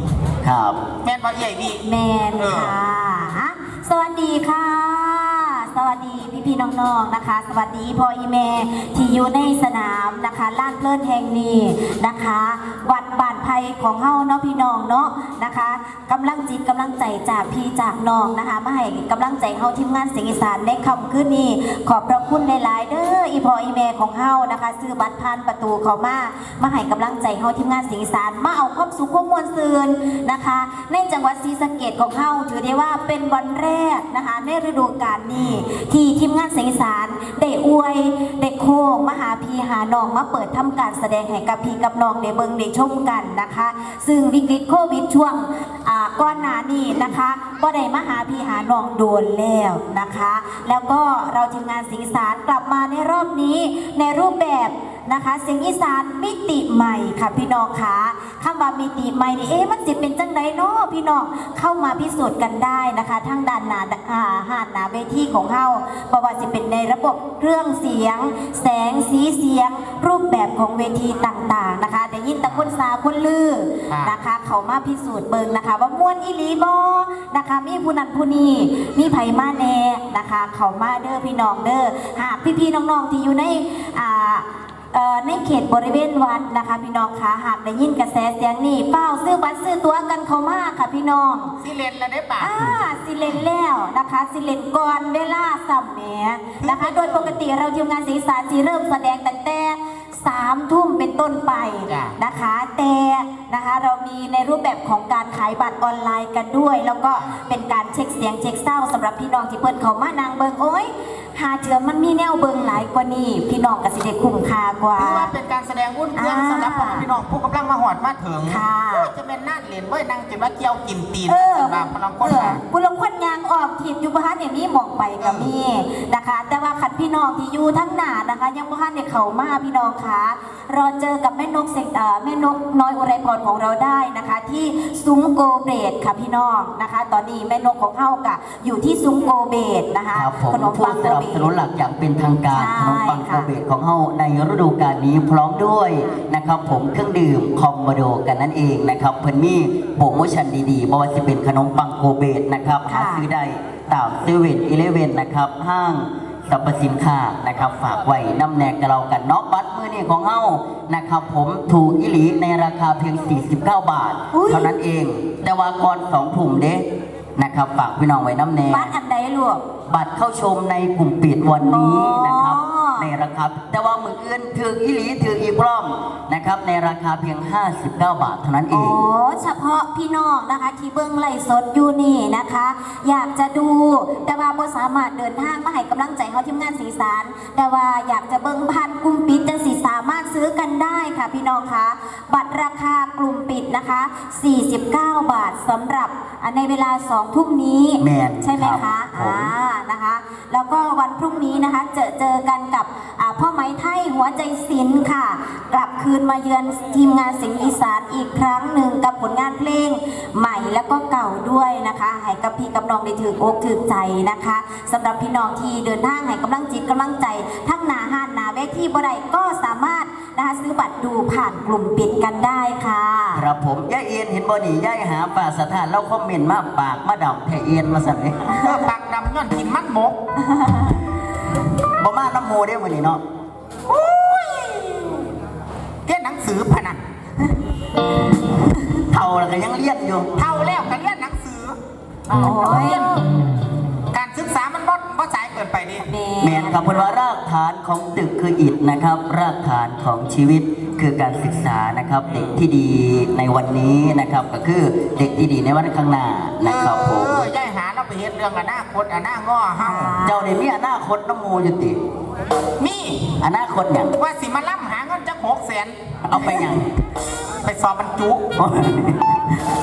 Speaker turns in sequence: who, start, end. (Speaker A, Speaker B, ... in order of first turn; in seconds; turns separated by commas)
Speaker A: 0.4-0.8, Speaker B: 1.0-1.8, Speaker C: 1.8-91.5, Speaker B: 2.4-2.7, Speaker B: 35.3-35.6, Speaker B: 72.5-72.7, Speaker B: 73.9-74.2, Speaker B: 91.6-92.6, Speaker C: 92.4-115.3, Speaker B: 96.6-97.4, Speaker B: 101.9-102.2, Speaker B: 115.0-122.6, Speaker C: 116.2-117.1, Speaker C: 118.4-119.1, Speaker C: 121.3-141.5, Speaker B: 125.2-125.5, Speaker A: 140.1-166.8, Speaker C: 142.5-143.5, Speaker C: 152.9-153.2, Speaker C: 164.3-164.7, Speaker A: 167.4-168.9, Speaker C: 168.7-169.6, Speaker A: 169.9-179.0, Speaker C: 171.6-173.1, Speaker C: 178.7-223.4, Speaker A: 198.0-199.5, Speaker A: 223.3-228.6, Speaker B: 228.5-230.2, Speaker C: 230.5-231.0, Speaker A: 231.9-233.2, Speaker B: 233.9-235.1, Speaker B: 236.1-237.0, Speaker A: 239.1-240.3, Speaker B: 240.3-241.8, Speaker B: 242.3-243.2, Speaker C: 242.3-243.2, Speaker B: 244.1-246.1, Speaker C: 246.0-247.1, Speaker A: 246.4-257.5, Speaker B: 256.6-260.1, Speaker C: 259.8-260.5, Speaker A: 260.2-262.0, Speaker B: 262.8-263.4, Speaker A: 263.4-264.1, Speaker B: 264.1-265.9, Speaker A: 266.3-266.9, Speaker B: 267.6-268.4, Speaker A: 268.6-269.4